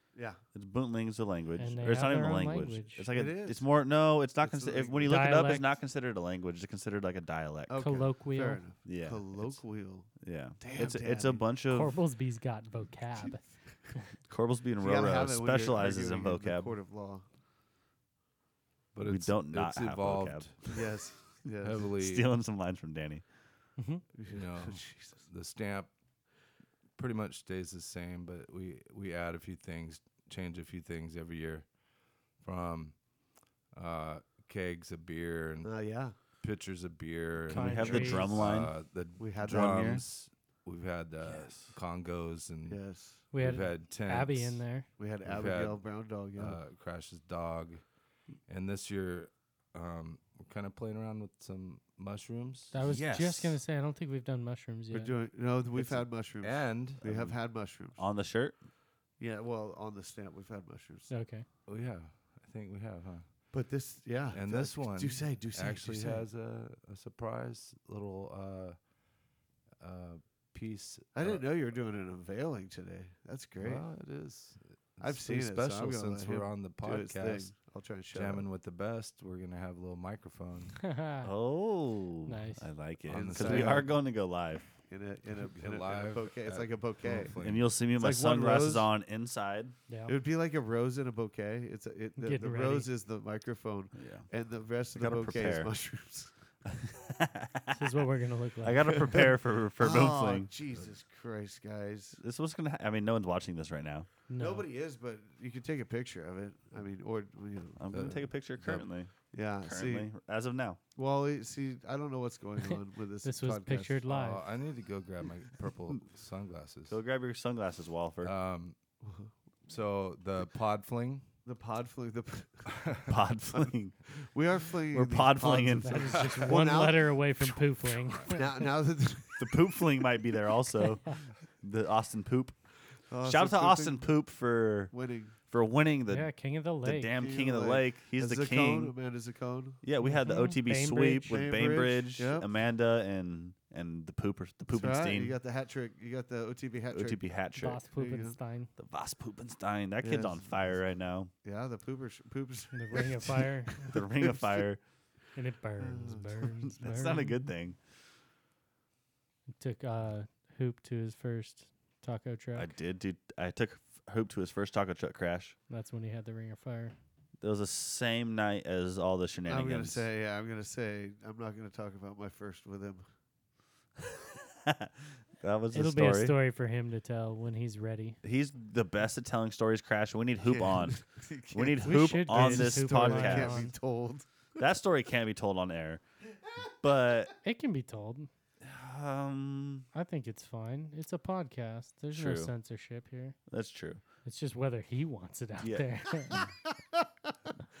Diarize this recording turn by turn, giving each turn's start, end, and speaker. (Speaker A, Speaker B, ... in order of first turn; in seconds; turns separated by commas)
Speaker A: 0.1-0.4, Speaker B: 0.5-8.0, Speaker C: 1.6-3.0, Speaker A: 3.1-3.7, Speaker A: 4.4-5.2, Speaker C: 5.0-5.7, Speaker A: 7.7-11.4, Speaker C: 7.8-8.6, Speaker B: 8.8-9.6, Speaker B: 10.2-11.9, Speaker C: 11.7-14.0, Speaker B: 14.3-16.8, Speaker A: 14.8-17.2, Speaker D: 18.9-20.6, Speaker B: 19.1-20.8, Speaker A: 20.6-21.9, Speaker D: 21.6-22.3, Speaker B: 22.0-23.2, Speaker C: 23.8-24.0, Speaker A: 24.1-25.2, Speaker D: 24.3-25.9, Speaker D: 26.9-31.8, Speaker D: 32.3-33.0, Speaker D: 33.7-35.8, Speaker A: 35.6-36.1, Speaker D: 36.4-42.8, Speaker C: 37.5-38.4, Speaker B: 37.5-38.8, Speaker A: 39.2-40.0, Speaker B: 39.4-40.0, Speaker B: 41.2-41.8, Speaker A: 42.7-43.2, Speaker C: 43.3-44.9, Speaker D: 43.3-44.6, Speaker A: 45.0-46.6, Speaker D: 45.2-47.8, Speaker D: 48.5-52.8, Speaker C: 52.7-55.1, Speaker B: 52.8-53.6, Speaker A: 54.9-58.0, Speaker D: 55.7-57.0, Speaker B: 57.0-57.4, Speaker B: 57.9-58.6, Speaker A: 59.2-61.1, Speaker C: 61.1-61.5, Speaker D: 61.6-63.5, Speaker A: 63.5-66.3, Speaker D: 64.3-68.9, Speaker D: 69.8-71.4, Speaker A: 71.1-73.8, Speaker D: 73.6-77.5, Speaker A: 75.0-78.5, Speaker D: 78.1-80.8, Speaker C: 80.8-81.3, Speaker B: 81.2-84.7, Speaker C: 82.2-82.7, Speaker D: 83.1-83.9, Speaker A: 83.1-83.9, Speaker A: 84.9-87.3, Speaker D: 85.4-87.8, Speaker B: 87.4-89.7, Speaker A: 87.9-88.9, Speaker C: 89.9-90.1, Speaker A: 90.1-96.3, Speaker C: 92.2-92.9, Speaker B: 94.0-94.3, Speaker B: 94.9-95.7, Speaker B: 96.7-98.0, Speaker C: 97.7-99.0, Speaker B: 98.6-100.5, Speaker A: 99.8-102.2, Speaker B: 102.2-104.1, Speaker C: 104.3-104.7, Speaker A: 104.4-108.3, Speaker B: 107.8-110.8, Speaker D: 107.9-108.8, Speaker A: 109.3-110.1, Speaker A: 111.0-114.0, Speaker C: 113.2-114.4, Speaker D: 114.1-117.0, Speaker B: 116.9-118.3, Speaker D: 118.2-118.8, Speaker A: 119.0-119.3, Speaker D: 119.7-121.3, Speaker A: 121.4-122.7, Speaker D: 122.7-123.1, Speaker B: 123.1-124.0, Speaker A: 123.5-129.8, Speaker B: 124.9-126.2, Speaker C: 125.8-128.6, Speaker D: 126.2-126.5, Speaker B: 129.4-132.6, Speaker C: 130.8-131.1, Speaker A: 133.1-134.1, Speaker B: 133.2-134.9, Speaker A: 134.9-135.3, Speaker B: 135.5-138.9, Speaker C: 136.1-137.1, Speaker A: 137.1-139.8, Speaker B: 139.8-145.3, Speaker C: 140.0-141.4, Speaker A: 141.2-142.5, Speaker A: 144.7-147.2, Speaker B: 146.9-147.8, Speaker C: 147.6-148.7, Speaker A: 147.9-148.4, Speaker B: 148.8-151.3, Speaker A: 150.0-150.7, Speaker A: 151.4-154.6, Speaker C: 152.7-153.9, Speaker B: 153.8-154.8, Speaker C: 155.3-157.4, Speaker A: 155.8-157.2, Speaker B: 156.8-157.8, Speaker C: 159.6-162.7, Speaker B: 162.5-165.5, Speaker C: 165.7-166.9, Speaker B: 167.4-170.0, Speaker A: 169.5-173.0, Speaker B: 174.1-176.4, Speaker C: 175.7-178.2, Speaker B: 178.2-183.7, Speaker A: 180.4-184.7, Speaker C: 181.8-183.7, Speaker B: 184.6-186.0, Speaker B: 186.8-187.3, Speaker C: 187.4-188.3, Speaker B: 188.6-189.8, Speaker C: 189.9-193.3, Speaker B: 192.1-192.5, Speaker B: 193.5-194.0, Speaker C: 194.2-196.3, Speaker B: 195.6-196.5, Speaker A: 196.9-197.5